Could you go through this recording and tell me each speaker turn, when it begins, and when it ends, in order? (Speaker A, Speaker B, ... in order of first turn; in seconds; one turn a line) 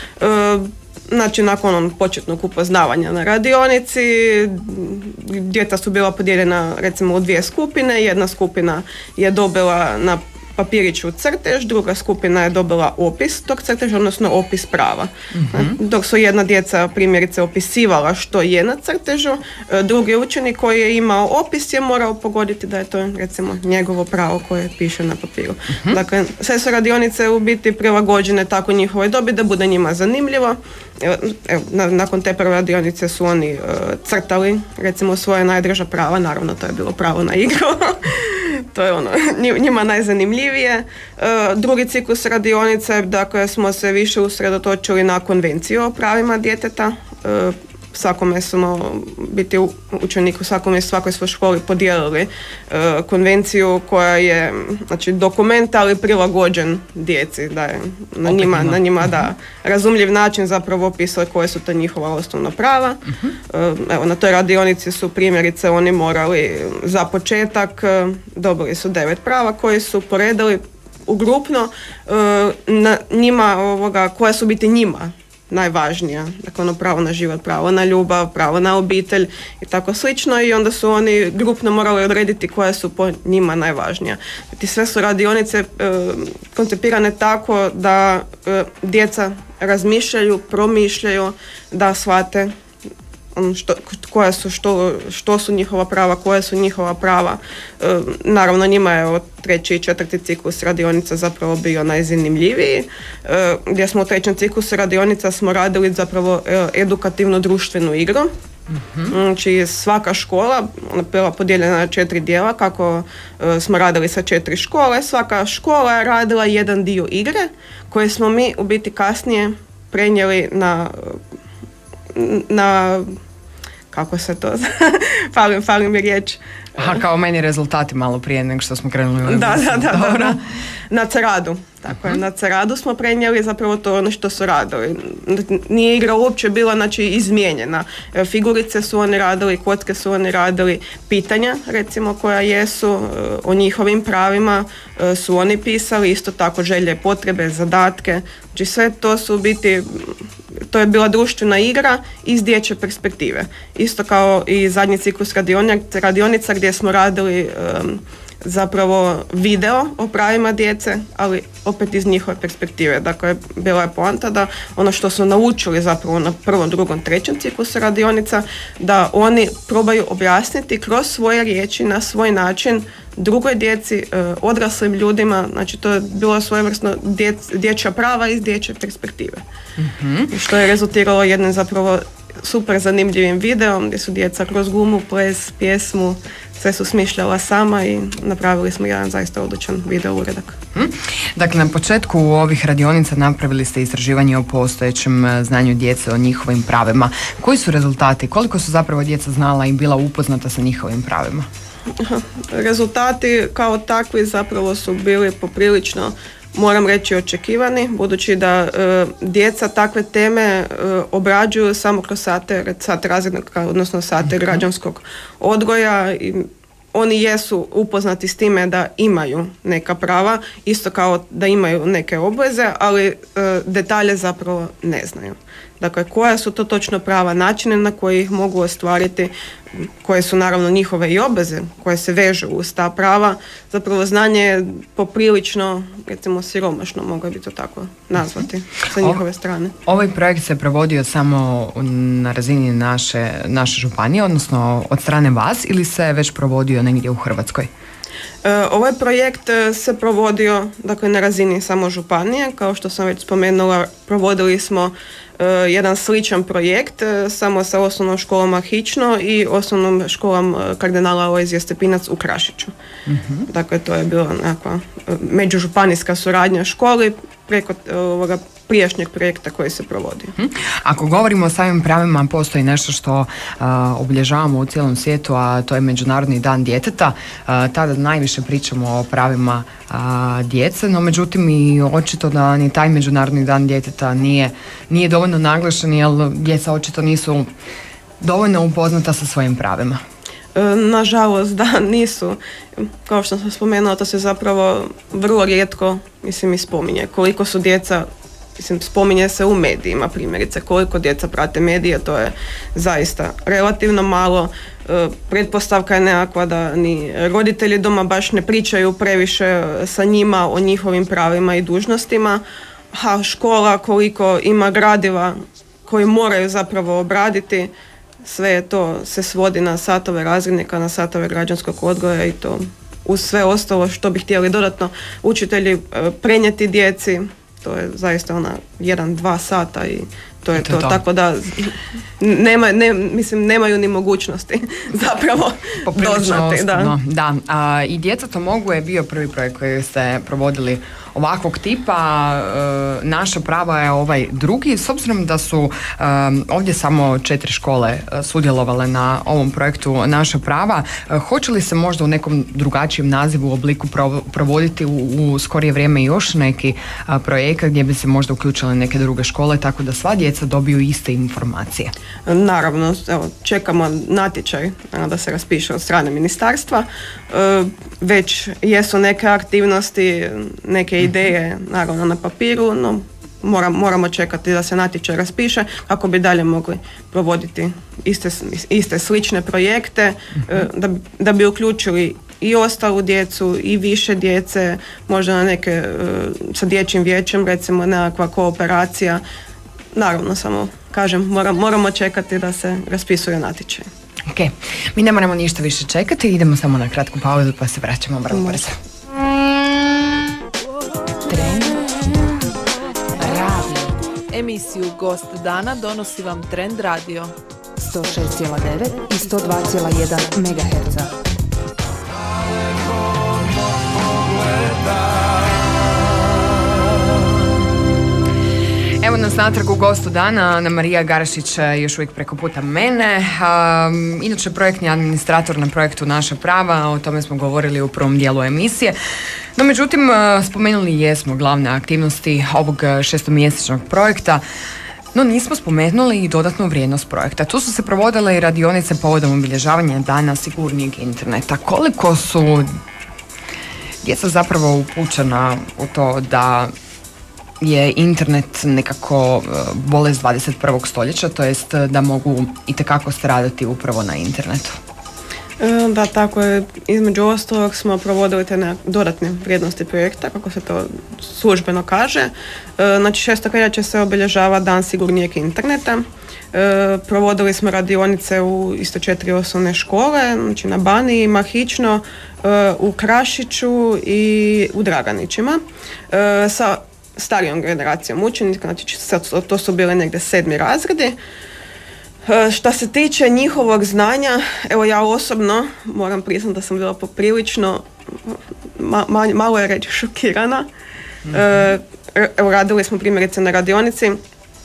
Speaker A: 0.2-92.5
Speaker B: 15.3-15.8
Speaker B: 58.2-59.3
Speaker B: 63.1-63.4
Speaker A: 93.3-108.3
Speaker B: 108.7-109.2
Speaker A: 109.1-121.2
Speaker A: 122.1-123.2
Speaker A: 123.9-127.0
Speaker B: 126.8-130.4
Speaker A: 129.2-179.4
Speaker B: 131.9-132.2
Speaker B: 179.8-180.3
Speaker A: 180.3-190.6
Speaker B: 190.7-201.5
Speaker A: 202.0-239.7
Speaker B: 239.8-247.7
Speaker A: 248.4-262.7
Speaker B: 263.1-263.5
Speaker A: 263.5-270.3
Speaker B: 270.4-287.5
Speaker B: 288.2-290.0
Speaker A: 290.5-312.4
Speaker A: 312.9-317.7
Speaker A: 318.2-336.9
Speaker B: 330.6-331.0
Speaker B: 335.9-361.9
Speaker A: 362.2-389.2
Speaker A: 389.9-393.9
Speaker B: 394.3-398.8
Speaker C: 401.2-402.6
Speaker C: 403.1-404.0
Speaker D: 404.3-407.3
Speaker C: 407.9-411.1
Speaker B: 419.0-428.9
Speaker B: 429.6-434.4
Speaker B: 435.1-442.7
Speaker B: 444.0-446.7
Speaker B: 447.6-454.8
Speaker A: 455.6-481.2
Speaker A: 482.2-490.7
Speaker B: 491.3-491.6
Speaker A: 491.3-494.2